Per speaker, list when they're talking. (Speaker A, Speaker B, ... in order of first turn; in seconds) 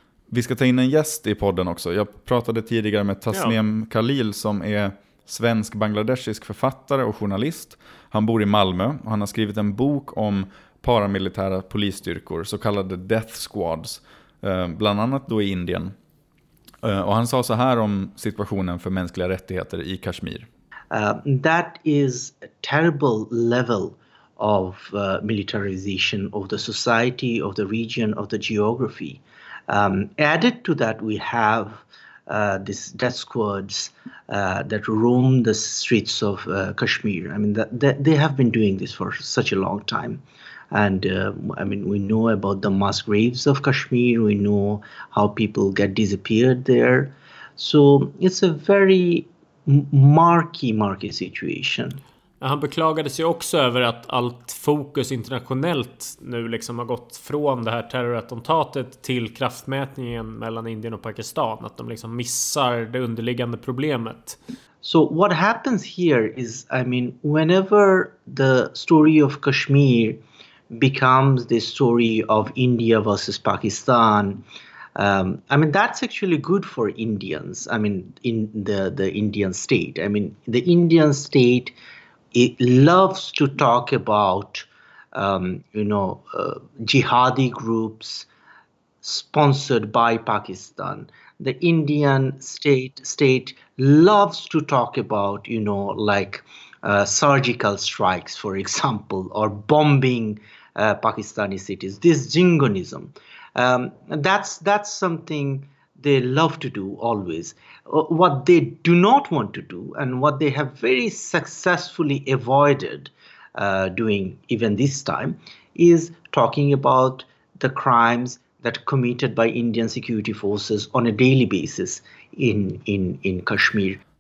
Speaker A: 0.3-15.9, 16.8-20.5
Speaker B: 3.3-3.6, 52.4-64.4
Speaker C: 20.9-40.2, 40.7-52.0, 64.8-70.2, 70.7-74.4, 75.0-81.8, 82.3-88.3, 89.0-124.0